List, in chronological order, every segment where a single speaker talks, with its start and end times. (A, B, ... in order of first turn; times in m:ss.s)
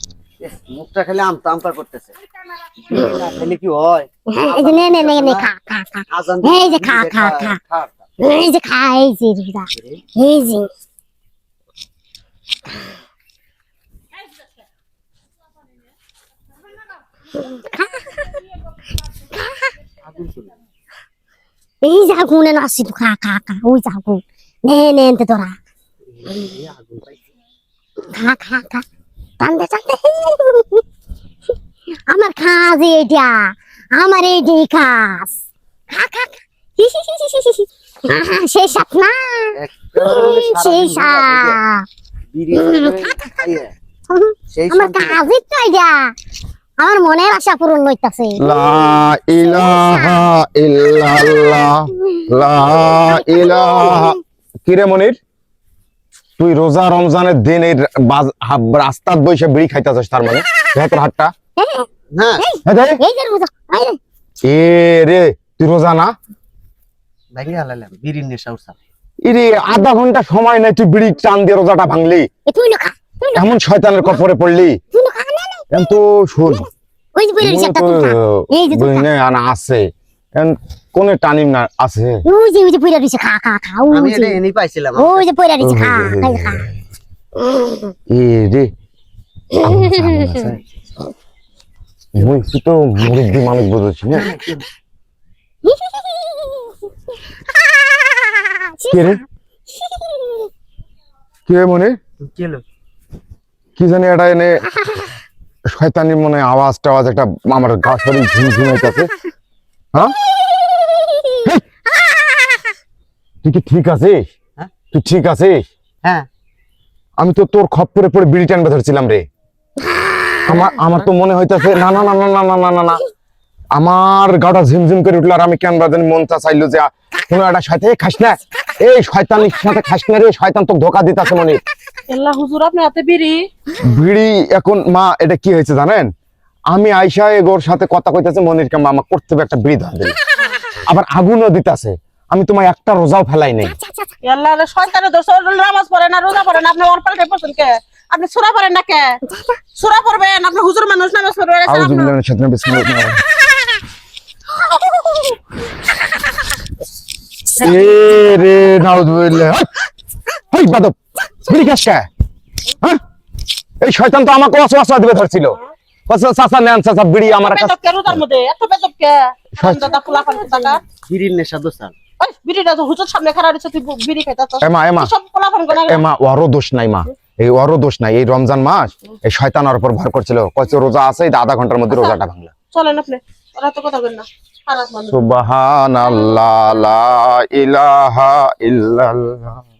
0:00.4-0:02.1 A
0:02.9-0:05.5 A
0:04.3-0:07.6 B
0:06.1-0:08.1 A
0:08.2-0:10.7 B
0:09.7-0:10.0 A
0:17.3-0:18.4 B
0:19.3-0:19.7 B
0:20.0-0:20.6 A
0:21.8-0:25.6 B
0:26.1-0:27.2 A
0:28.0-0:28.8 B
0:29.4-0:30.8 B
0:32.1-0:35.3 B
0:35.9-0:41.8 B
0:39.6-0:41.6 A
0:42.3-0:43.7 A
0:42.6-0:42.9 B
0:44.1-0:46.1 B
0:44.5-0:45.2 A
0:46.8-0:48.8 B
0:48.4-0:55.2 C
0:49.4-0:50.2 B
0:52.9-0:54.2 B
0:56.4-1:01.3 C
1:01.6-1:01.9 B
1:02.1-1:02.4 A
1:02.4-1:04.0 B
1:02.6-1:03.0 C
1:04.4-1:06.1 C
1:07.3-1:08.8 A
1:09.2-1:12.3 C
1:12.4-1:13.4 B
1:13.3-1:14.8 C
1:14.9-1:15.7 B
1:15.7-1:16.6 C
1:16.5-1:19.1 B
1:17.4-1:22.2 C
1:22.2-1:24.4 B
1:23.9-1:25.3 A
1:25.0-1:26.6 B
1:25.6-1:26.7 C
1:27.5-1:27.9 B
1:28.1-1:28.7 C
1:29.5-1:30.4 B
1:29.6-1:30.6 C
1:32.1-1:34.3 C
1:34.1-1:34.7 A
1:35.6-1:36.8 B
1:37.5-1:40.5 B
1:38.9-1:39.2 C
1:41.5-1:42.0 C
1:42.2-1:42.6 A
1:43.8-1:44.6 C
1:45.7-1:49.1 C
1:50.3-1:52.7 B
1:53.4-1:54.2 C
1:54.9-1:55.6 C
1:57.2-1:59.2 C
1:59.8-2:00.7 B
2:00.4-2:03.0 C
2:03.7-2:11.6 C
2:12.1-2:13.4 D
2:13.8-2:16.1 C
2:16.7-2:20.2 C
2:20.3-2:20.7 B
2:20.8-2:23.7 C
2:23.6-2:24.2 B
2:24.2-2:29.2 D
2:29.3-2:29.6 B
2:29.8-2:32.1 D
2:31.7-2:33.2 C
2:34.6-2:35.2 B
2:37.5-2:39.8 C
2:40.4-2:42.1 C
2:43.8-2:48.2 C
2:47.2-2:50.8 D
2:49.6-2:49.9 C
2:51.0-2:51.9 A
2:52.2-2:56.0 D
2:54.6-2:55.1 C
2:55.7-3:02.5 C
3:01.9-3:02.2 D
3:02.7-3:05.2 D
3:05.1-3:09.6 C